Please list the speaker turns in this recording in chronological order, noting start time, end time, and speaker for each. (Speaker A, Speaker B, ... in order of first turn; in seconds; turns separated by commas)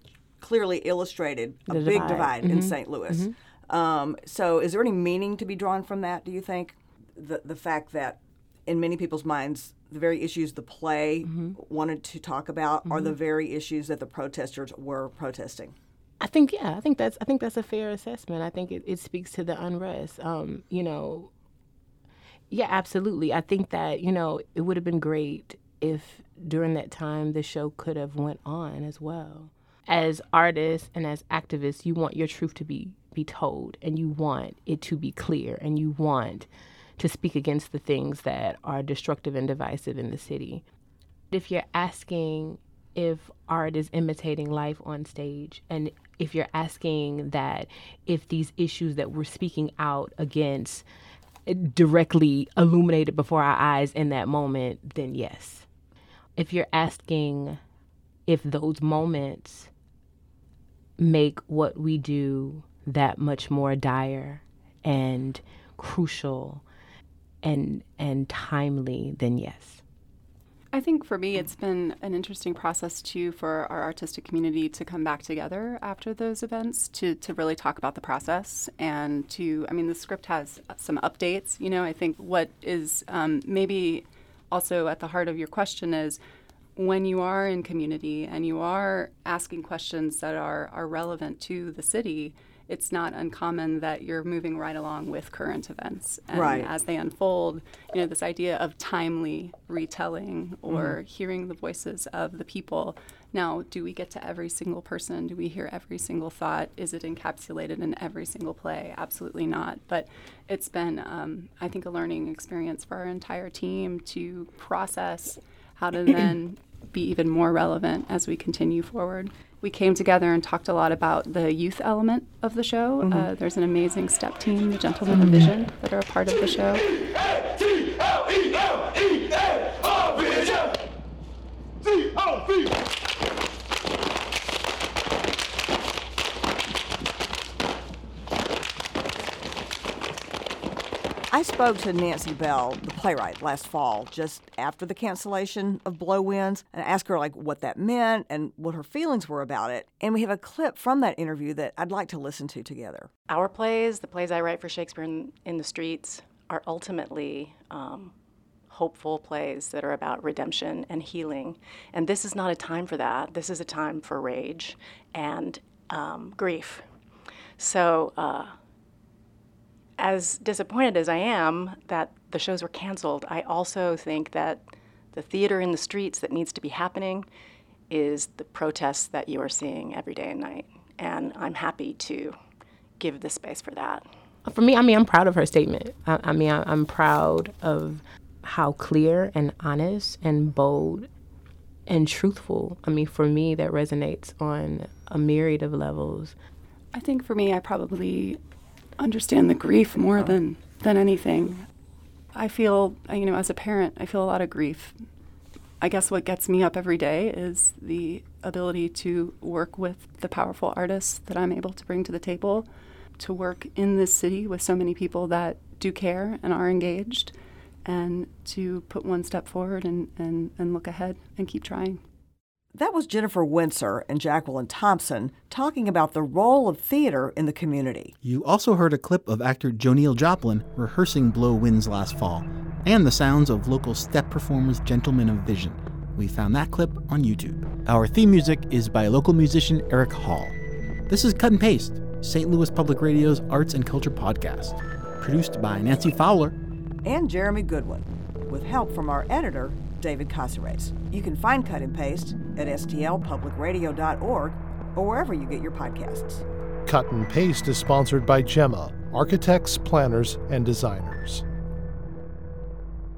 Speaker A: 0.4-15.7, Speaker B: 1.7-3.3, Speaker B: 11.2-11.5, Speaker B: 12.9-13.1, Speaker B: 16.2-21.3, Speaker B: 22.5-40.6, Speaker B: 41.3-50.8, Speaker B: 51.5-55.7, Speaker B: 56.4-57.6, Speaker B: 58.3-59.7, Speaker B: 61.0-66.6, Speaker B: 67.4-69.8, Speaker C: 70.7-86.2, Speaker C: 86.8-126.8, Speaker A: 96.3-96.7, Speaker A: 100.7-101.0, Speaker B: 125.1-125.5, Speaker A: 141.3-153.1, Speaker D: 153.3-158.1, Speaker D: 158.7-166.8, Speaker D: 167.6-168.5, Speaker D: 170.0-177.3, Speaker D: 177.9-182.4, Speaker D: 183.0-184.1, Speaker B: 184.4-191.1, Speaker B: 191.9-196.3, Speaker C: 196.9-198.4, Speaker C: 199.0-201.6, Speaker C: 202.3-205.0, Speaker C: 205.8-212.7, Speaker C: 213.2-217.3, Speaker C: 217.8-222.0, Speaker A: 222.7-228.1, Speaker E: 228.2-240.6, Speaker E: 241.1-246.6, Speaker A: 247.0-256.4, Speaker F: 256.9-261.4